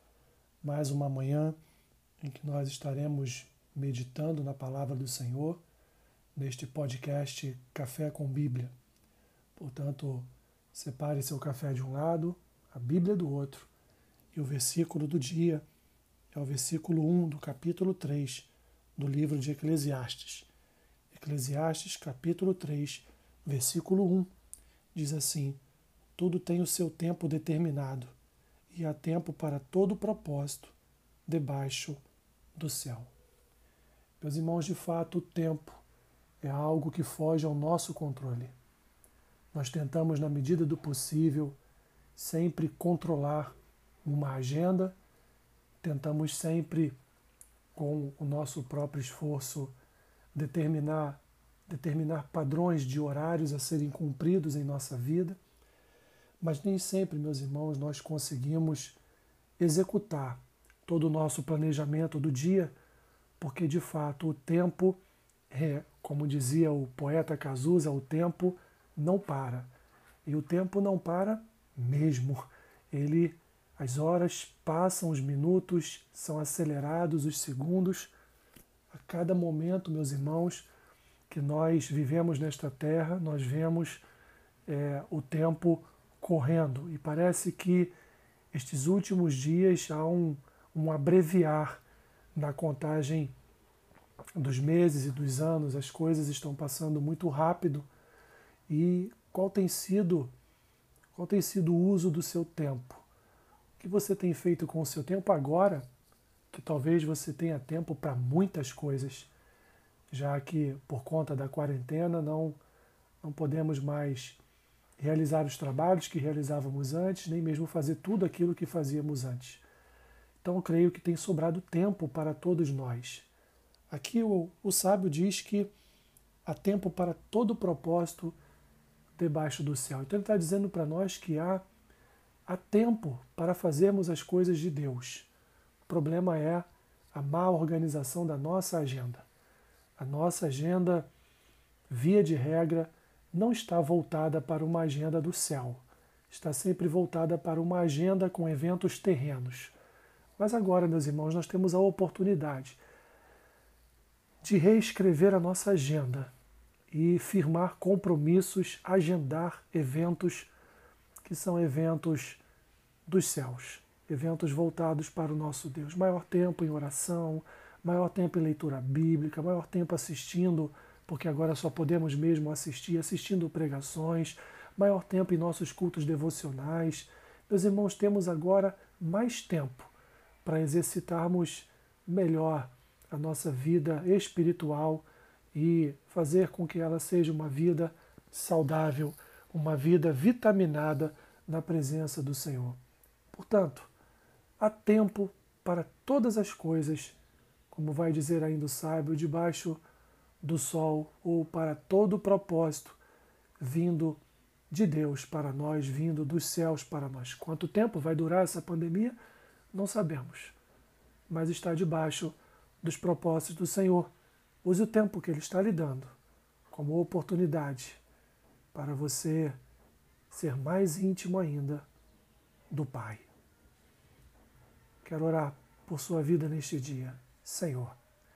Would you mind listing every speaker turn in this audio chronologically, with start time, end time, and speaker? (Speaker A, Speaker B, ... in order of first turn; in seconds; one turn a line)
Speaker A: 0.6-1.6
Speaker A: 2.2-5.6
Speaker A: 6.3-8.7
Speaker A: 9.6-13.7
Speaker A: 14.3-15.6
Speaker A: 16.3-20.5
Speaker A: 21.1-24.3
Speaker A: 24.9-25.6
Speaker A: 26.1-28.1
Speaker A: 28.7-32.0
Speaker A: 32.5-33.1
Speaker A: 34.2-35.8
Speaker A: 36.4-38.5
Speaker A: 39.5-41.6
Speaker A: 42.1-44.9
Speaker A: 45.8-46.9
Speaker A: 47.7-49.7
Speaker A: 50.3-55.4
Speaker A: 56.4-59.0
Speaker A: 59.6-62.7
Speaker A: 63.4-65.0
Speaker A: 65.5-69.7
Speaker A: 70.2-78.1
Speaker A: 78.9-80.7
Speaker A: 81.3-84.0
Speaker A: 84.7-87.9
Speaker A: 88.5-91.8
Speaker A: 92.3-93.3
Speaker A: 94.3-97.9
Speaker A: 98.7-100.3
Speaker A: 101.1-103.0
Speaker A: 103.8-105.9
Speaker A: 106.5-109.3
Speaker A: 110.1-112.6
Speaker A: 113.2-114.4
Speaker A: 115.0-119.6
Speaker A: 120.4-123.3
Speaker A: 123.9-125.7
Speaker A: 126.4-128.4
Speaker A: 129.2-131.6
Speaker A: 132.4-135.3
Speaker A: 135.9-139.3
Speaker A: 140.0-141.1
Speaker A: 141.9-149.7
Speaker A: 150.4-152.8
Speaker A: 154.4-156.3
Speaker A: 156.9-160.5
Speaker A: 161.2-162.4
Speaker A: 163.1-179.9
Speaker A: 180.4-192.8
Speaker A: 193.3-193.9
Speaker A: 194.6-197.2
Speaker A: 197.7-199.8
Speaker A: 200.4-203.0
Speaker A: 203.6-209.2
Speaker A: 209.7-210.6
Speaker A: 211.3-214.1
Speaker A: 214.6-216.1
Speaker A: 216.7-218.0
Speaker A: 218.7-219.6
Speaker A: 220.3-221.9
Speaker A: 222.7-223.3
Speaker A: 225.0-228.0